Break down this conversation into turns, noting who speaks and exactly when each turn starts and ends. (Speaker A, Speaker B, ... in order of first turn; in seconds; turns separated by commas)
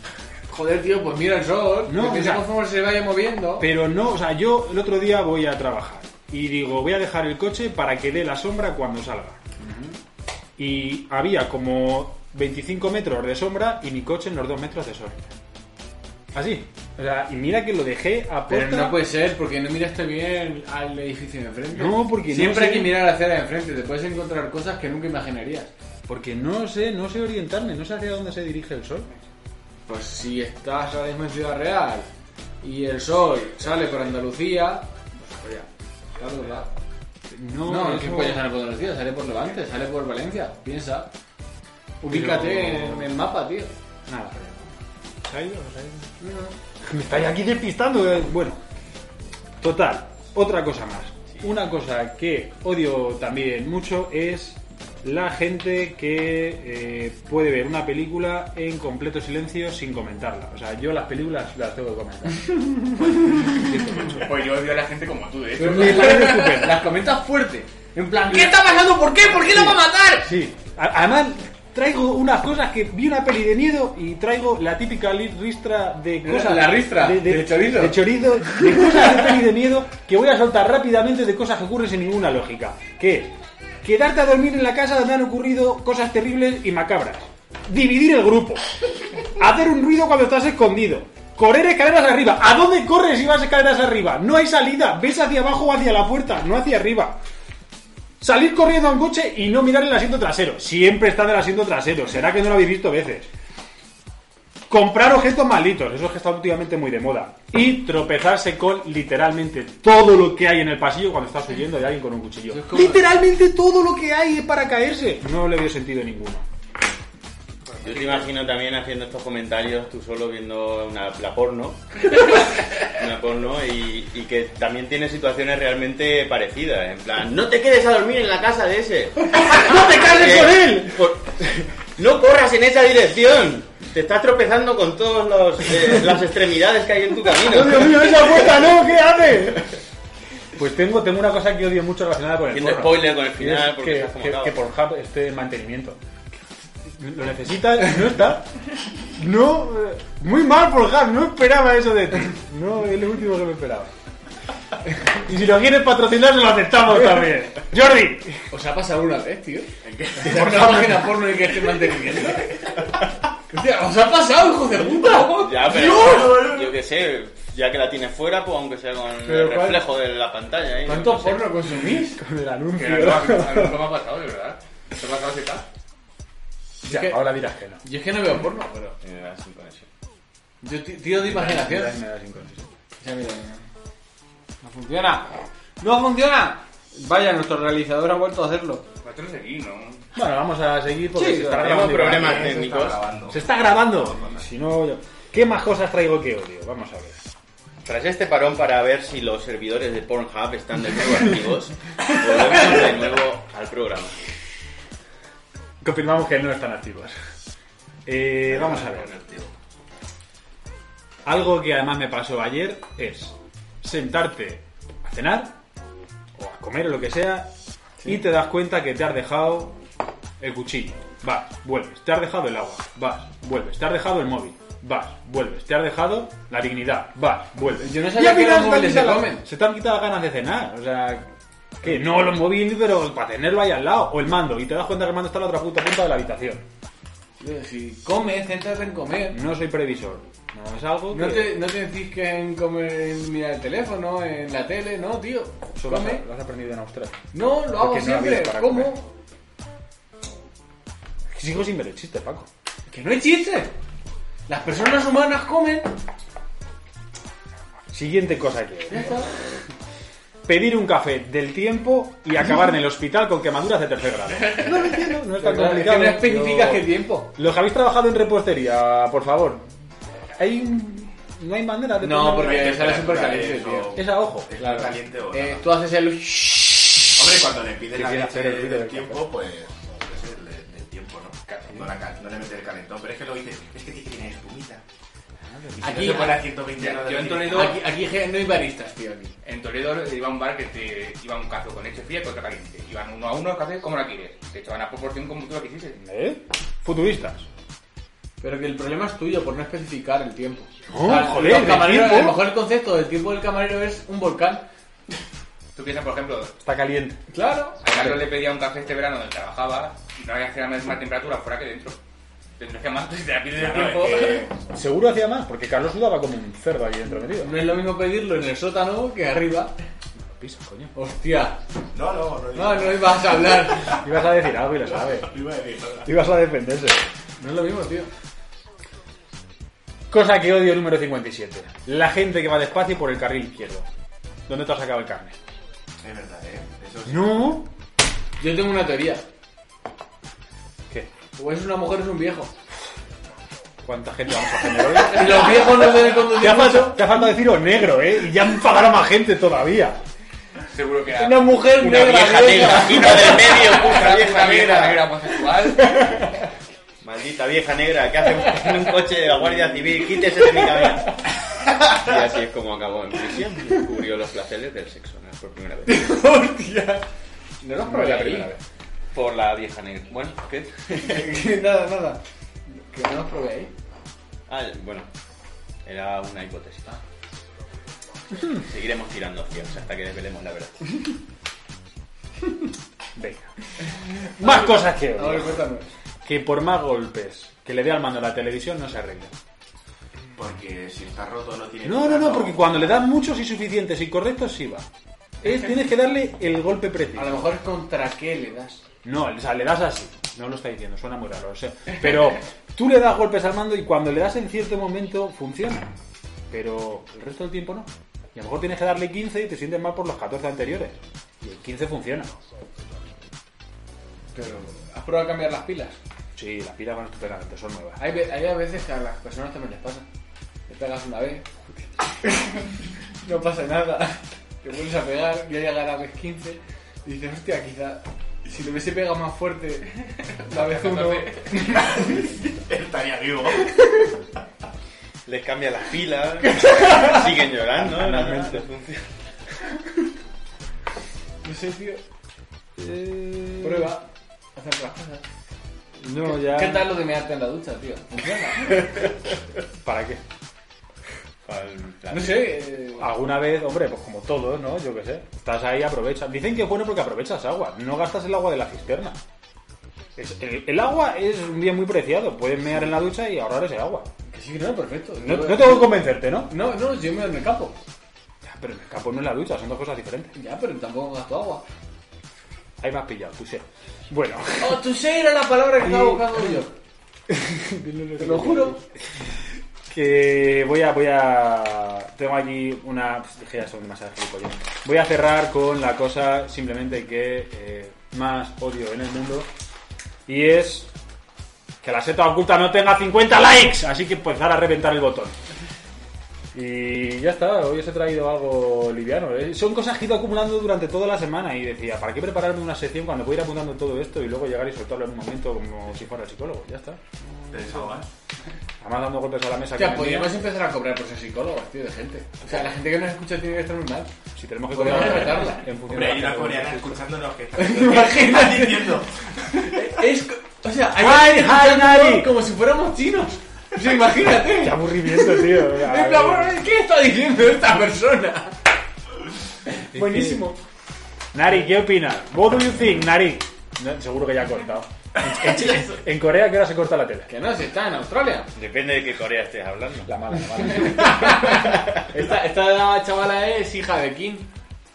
Speaker A: 0.5-3.7, Speaker B: 1.8-2.6, Speaker B: 3.6-9.4, Speaker A: 9.6-10.0, Speaker B: 10.6-15.2, Speaker B: 16.3-19.0, Speaker A: 18.5-25.7, Speaker B: 21.7-23.1, Speaker B: 26.1-29.1, Speaker A: 29.9-32.1, Speaker A: 32.6-36.7, Speaker B: 37.3-38.5, Speaker A: 37.6-41.1, Speaker A: 42.0-43.7, Speaker B: 42.1-43.2, Speaker B: 44.1-44.4, Speaker B: 45.2-46.1, Speaker A: 46.2-46.5, Speaker B: 46.8-48.6, Speaker B: 49.6-64.2, Speaker C: 64.0-66.3, Speaker A: 65.6-70.3, Speaker B: 65.6-66.9, Speaker C: 68.3-69.8, Speaker B: 69.5-88.7, Speaker A: 76.2-78.9, Speaker B: 89.2-97.2, Speaker B: 98.2-103.3, Speaker B: 104.7-116.4, Speaker A: 112.5-113.1, Speaker C: 117.8-118.3, Speaker D: 117.8-138.2, Speaker B: 129.4-131.1, Speaker B: 137.4-139.8, Speaker B: 140.5-146.0, Speaker D: 142.5-144.6, Speaker B: 146.8-148.5, Speaker B: 149.1-153.9, Speaker B: 154.9-158.5, Speaker A: 158.5-162.8, Speaker E: 159.8-160.9, Speaker B: 160.4-160.8, Speaker A: 163.5-166.6, Speaker D: 165.3-171.6, Speaker E: 165.8-166.2, Speaker A: 169.2-169.9, Speaker A: 170.8-172.2, Speaker B: 172.0-173.9, Speaker C: 172.7-175.7, Speaker A: 176.8-178.9, Speaker B: 176.8-177.8, Speaker D: 179.0-179.9, Speaker A: 180.6-182.0, Speaker B: 181.2-182.7, Speaker A: 183.0-183.6, Speaker A: 184.6-188.8, Speaker C: 189.0-190.1, Speaker B: 190.1-192.6, Speaker A: 191.1-191.7, Speaker D: 191.5-193.0, Speaker E: 191.6-194.5, Speaker B: 193.3-197.2, Speaker D: 197.8-204.2, Speaker B: 205.8-207.1, Speaker B: 208.1-209.1, Speaker D: 208.5-209.5, Speaker B: 211.2-215.6, Speaker B: 216.4-217.5, Speaker B: 218.0-219.8, Speaker B: 220.4-231.3, Speaker A: 227.8-229.4, Speaker B: 231.8-236.6, Speaker A: 237.4-239.4, Speaker B: 239.3-241.6, Speaker A: 241.1-246.2, Speaker B: 245.8-249.0, Speaker A: 247.3-249.1, Speaker B: 251.3-252.5, Speaker A: 252.9-253.7, Speaker A: 254.5-256.0, Speaker B: 257.9-259.2, Speaker A: 258.9-259.3, Speaker B: 260.4-269.7, Speaker A: 265.3-267.3, Speaker B: 270.3-272.9, Speaker A: 272.0-274.0, Speaker E: 272.3-275.7, Speaker B: 273.9-274.5, Speaker A: 274.5-277.1, Speaker E: 277.2-284.8, Speaker B: 277.9-279.3, Speaker B: 285.4-286.1, Speaker E: 285.8-287.7, Speaker A: 285.8-286.4, Speaker C: 286.0-287.8, Speaker A: 287.4-289.3, Speaker C: 289.4-296.0, Speaker B: 296.0-297.5, Speaker A: 298.4-304.7, Speaker B: 300.9-302.5, Speaker C: 305.7-306.6, Speaker B: 306.6-307.2, Speaker A: 307.3-307.8, Speaker C: 307.8-312.0, Speaker B: 307.9-308.2, Speaker C: 312.6-314.5, Speaker E: 313.7-314.4, Speaker B: 314.5-317.7, Speaker A: 317.4-319.8, Speaker B: 320.2-320.9, Speaker A: 320.9-321.6, Speaker E: 321.9-323.9, Speaker A: 322.5-323.9, Speaker B: 323.9-325.4, Speaker E: 325.1-326.1, Speaker B: 326.0-327.1, Speaker A: 327.4-328.1, Speaker B: 330.1-333.9, Speaker B: 334.5-335.4, Speaker E: 336.0-337.5, Speaker B: 337.1-337.7, Speaker A: 338.4-339.2, Speaker A: 341.3-342.5, Speaker B: 343.8-350.0, Speaker A: 345.0-347.1, Speaker C: 350.6-356.2, Speaker A: 351.2-353.4, Speaker B: 351.5-352.3, Speaker D: 351.9-355.1, Speaker B: 355.9-356.2, Speaker D: 357.0-361.2, Speaker D: 361.8-366.1, Speaker A: 365.8-367.0, Speaker A: 367.6-368.5, Speaker B: 367.8-368.6, Speaker D: 369.1-371.3, Speaker A: 370.9-372.2, Speaker A: 372.7-373.7, Speaker D: 374.5-375.1, Speaker D: 375.8-377.0, Speaker D: 378.5-381.1, Speaker B: 383.1-383.5, Speaker B: 384.3-385.6, Speaker A: 384.4-385.9, Speaker B: 386.2-389.3, Speaker E: 390.4-392.9, Speaker B: 391.8-394.9, Speaker B: 395.4-397.5, Speaker A: 397.1-398.8, Speaker B: 399.0-405.9, Speaker B: 406.5-412.3, Speaker A: 414.3-416.0, Speaker B: 416.4-418.0, Speaker A: 418.0-420.1, Speaker A: 420.7-421.5, Speaker A: 422.2-432.1, Speaker C: 430.5-431.6, Speaker E: 431.6-433.9, Speaker D: 435.2-439.0, Speaker B: 437.8-438.6, Speaker A: 441.4-442.0, Speaker B: 442.8-443.9, Speaker A: 443.6-445.2, Speaker B: 446.0-446.9, Speaker A: 446.2-449.1, Speaker B: 449.8-450.2, Speaker D: 451.4-452.6, Speaker A: 452.1-453.1, Speaker B: 453.0-459.2, Speaker B: 460.1-464.1, Speaker A: 464.3-467.8, Speaker B: 465.2-466.5, Speaker B: 468.4-470.3, Speaker A: 470.3-471.6, Speaker B: 472.8-474.9, Speaker A: 474.6-476.7, Speaker B: 475.8-476.6, Speaker B: 477.3-478.8, Speaker A: 478.2-478.8, Speaker B: 479.9-489.5, Speaker B: 490.2-490.9, Speaker B: 491.8-495.3, Speaker B: 496.5-507.9, Speaker E: 507.5-508.1, Speaker B: 508.8-510.4, Speaker A: 509.8-514.1, Speaker B: 514.3-517.0, Speaker A: 514.7-515.7, Speaker E: 515.8-519.8, Speaker A: 517.6-519.0, Speaker A: 519.5-528.6, Speaker B: 520.9-522.3, Speaker B: 524.4-526.6, Speaker A: 529.7-530.5, Speaker B: 529.9-530.6, Speaker B: 531.3-537.3, Speaker A: 537.3-538.5, Speaker D: 538.5-540.1, Speaker B: 540.0-541.5, Speaker A: 540.7-544.5